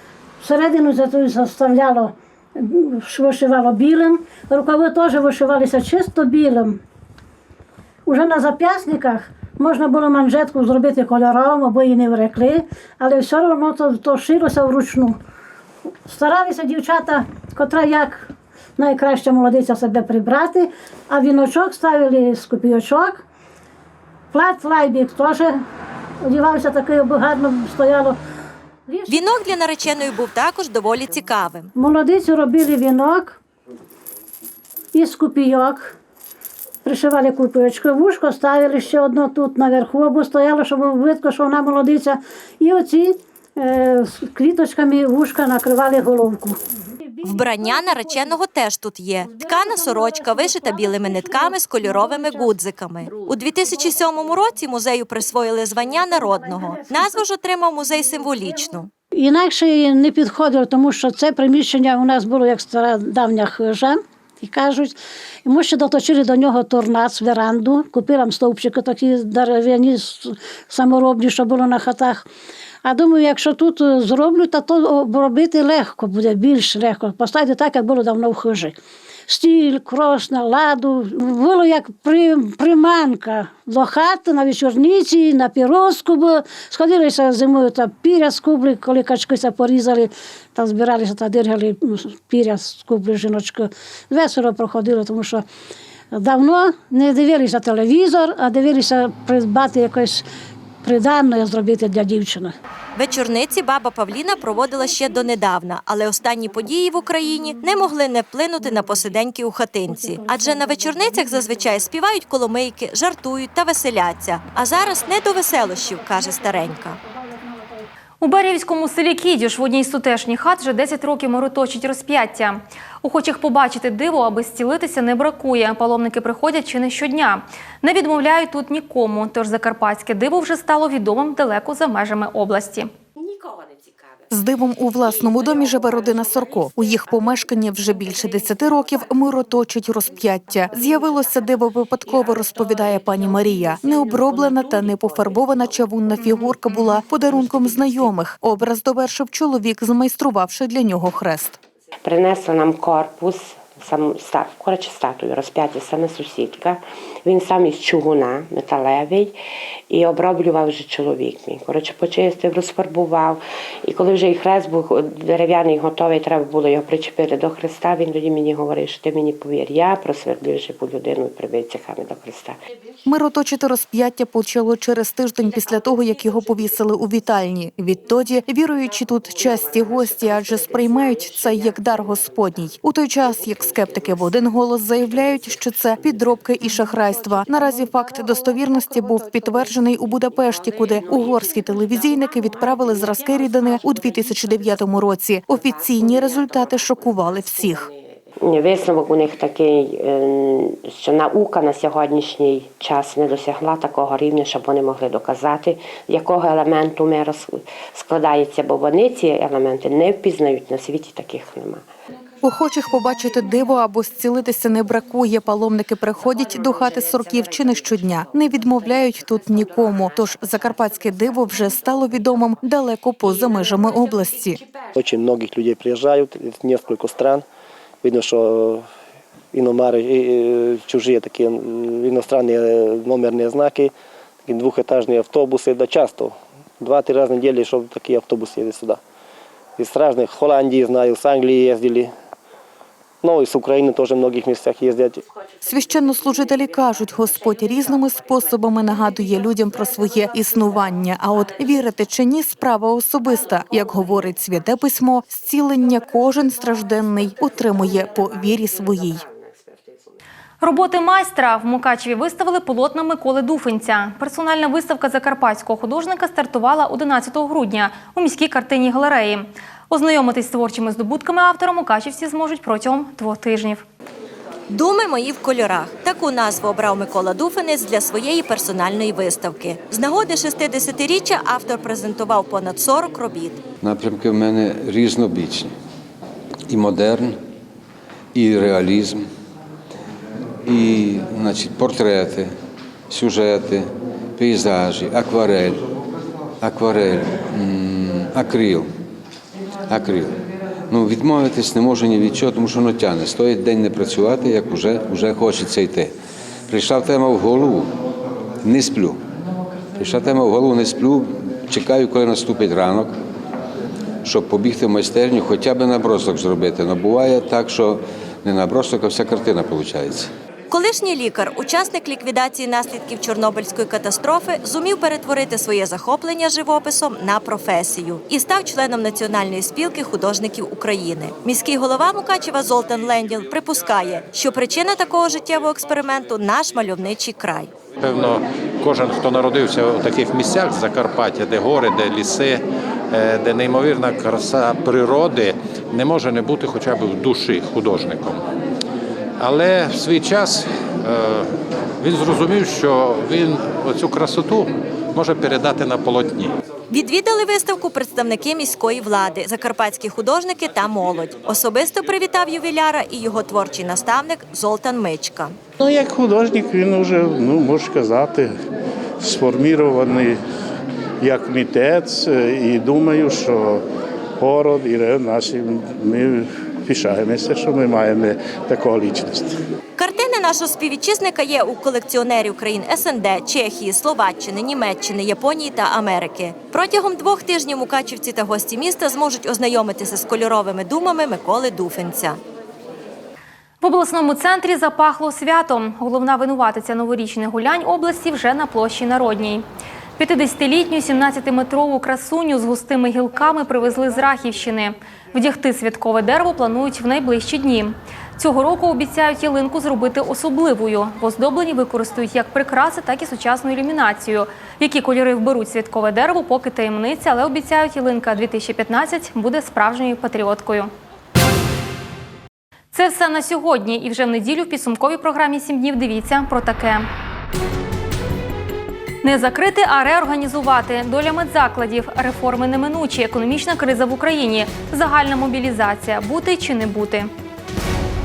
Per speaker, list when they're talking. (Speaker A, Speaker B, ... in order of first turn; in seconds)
Speaker A: 0.4-6.8, 8.1-15.2, 16.1-23.2, 24.3-25.6, 26.2-28.2, 28.9-29.2, 31.8-33.4, 34.9-36.0, 36.9-48.4, 49.2-53.1, 55.9-57.2, 59.2-72.3, 72.8-78.8, 79.3-95.5, 96.1-100.3, 100.8-102.5, 109.9-111.5, 114.8-117.9
Speaker B: 29.1-31.7, 47.2-58.9, 103.0-117.0, 274.7-283.6, 320.7-337.7, 356.9-365.6, 380.0-392.4
Speaker C: 118.2-132.9, 260.6-273.8, 393.8-399.6, 400.2-420.9, 422.9-427.1, 429.2-437.3
Speaker D: 134.3-151.6, 173.1-197.9, 212.4-224.6, 245.6-259.2
Speaker E: 152.0-159.4, 159.9-172.6, 198.4-211.8
Speaker F: 225.0-227.5, 228.0-228.9, 229.5-233.9, 234.5-239.0, 239.8-242.1, 243.2-245.2
Speaker G: 283.8-285.7, 286.7-287.4, 288.3-289.2, 290.7-292.6, 293.1-295.8, 296.6-298.9, 299.9-300.4, 300.9-306.1, 306.7-307.9, 308.6-309.2, 310.0-313.1, 314.2-320.3
Speaker H: 338.0-348.4, 349.4-356.6
Speaker I: 365.8-368.6, 369.2-370.4, 371.2-373.8, 374.4-379.6